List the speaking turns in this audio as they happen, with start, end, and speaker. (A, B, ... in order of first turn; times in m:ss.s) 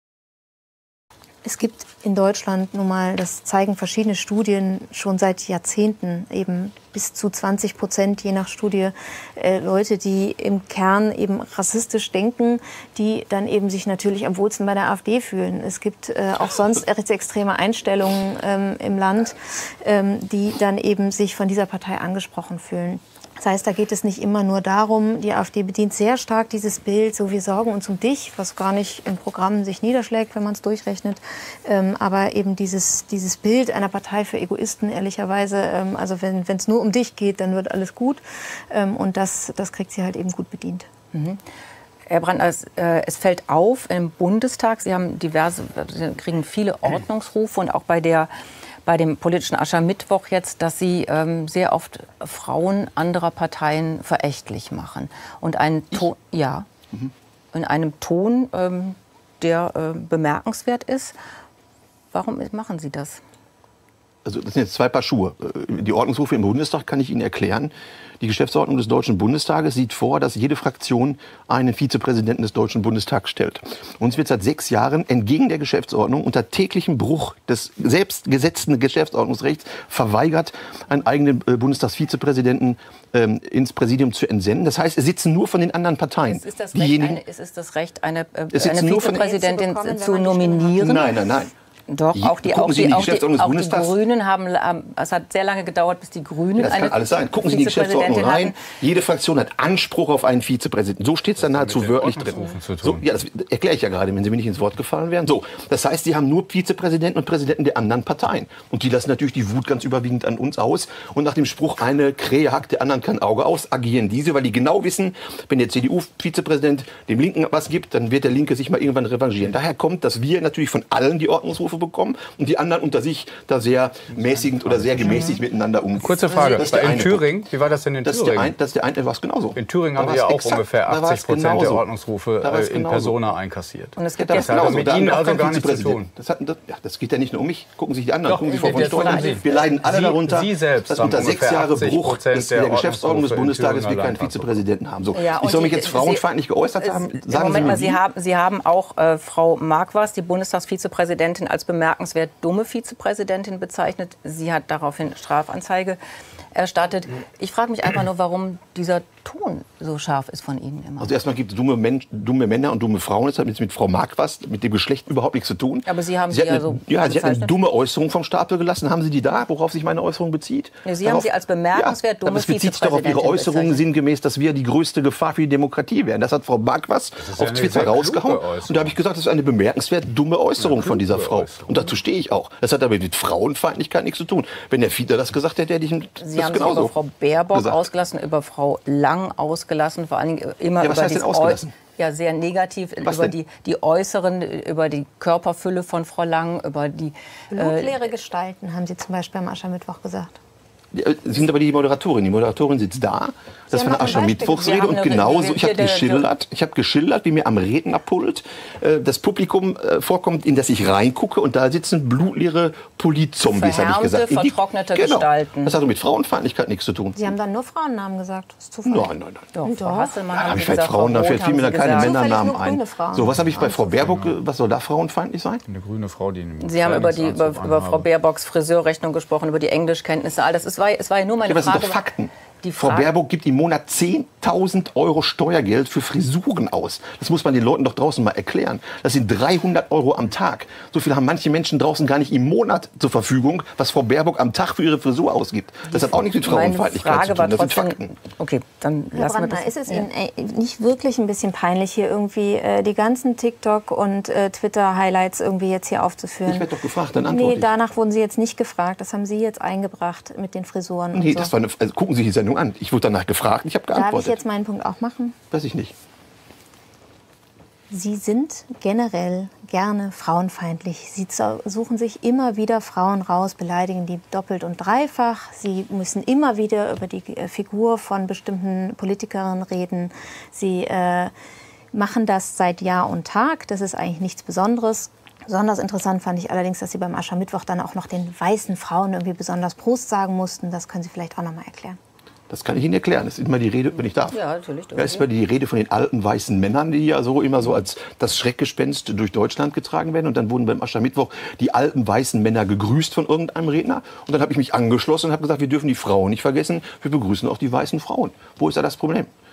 0:01.4-0:40.9 A
0:41.1-0:41.4 B
0:42.1-0:48.3 B
0:48.8-0:56.7 B
0:57.5-1:01.2 B
1:02.1-1:03.2 B
1:04.2-1:27.2 C
1:26.2-1:31.3 B
1:28.5-1:29.3 C
1:29.1-1:31.0 A
1:30.8-1:31.5 C
1:31.9-1:38.7 B
1:32.1-1:33.9 C
1:36.6-2:07.4 C
1:41.4-1:43.0 D
2:04.1-2:05.4 D
2:05.0-2:05.3 B
2:06.0-2:08.5 D
2:06.2-2:07.0 B
2:08.0-2:11.8 C
2:09.6-2:16.1 D
2:12.4-2:13.2 C
2:14.0-2:15.2 B
2:14.2-2:28.0 C
2:18.2-2:24.6 D
2:18.4-2:19.6 B
2:25.1-2:26.2 B
2:26.8-2:36.0 B
2:36.5-2:41.1 B
2:41.0-3:06.9 C
2:45.8-2:47.6 B
2:50.8-2:53.8 B
2:57.2-2:59.0 D
3:00.6-3:01.9 D
3:06.2-3:18.0 B
3:07.5-3:07.8 C
3:10.8-3:11.8 C
3:13.0-3:13.3 C
3:17.5-3:20.4 A
3:20.9-3:37.3 C
3:23.7-3:24.2 A
3:23.8-3:26.2 B
3:33.4-3:35.8 B
3:37.2-3:39.1 A
3:38.8-3:39.5 C
3:39.5-3:42.3 B
3:39.6-3:40.2 A
3:40.3-3:45.6 C
3:41.9-3:44.0 A
3:43.2-3:44.4 D
3:45.7-3:48.1 D
3:46.6-3:52.0 B
3:51.4-4:08.1 C
3:52.6-3:53.1 B
4:05.9-4:10.0 B
4:09.1-4:16.7 A
4:16.4-4:17.7 C
4:17.2-4:21.5 A
4:21.1-4:24.4 C
4:23.9-4:25.4 A
4:25.5-4:25.9 C
4:27.9-4:41.3 A
4:41.9-4:52.0 A
4:52.5-4:54.4 C
4:54.2-4:55.2 B
4:54.9-5:09.3 C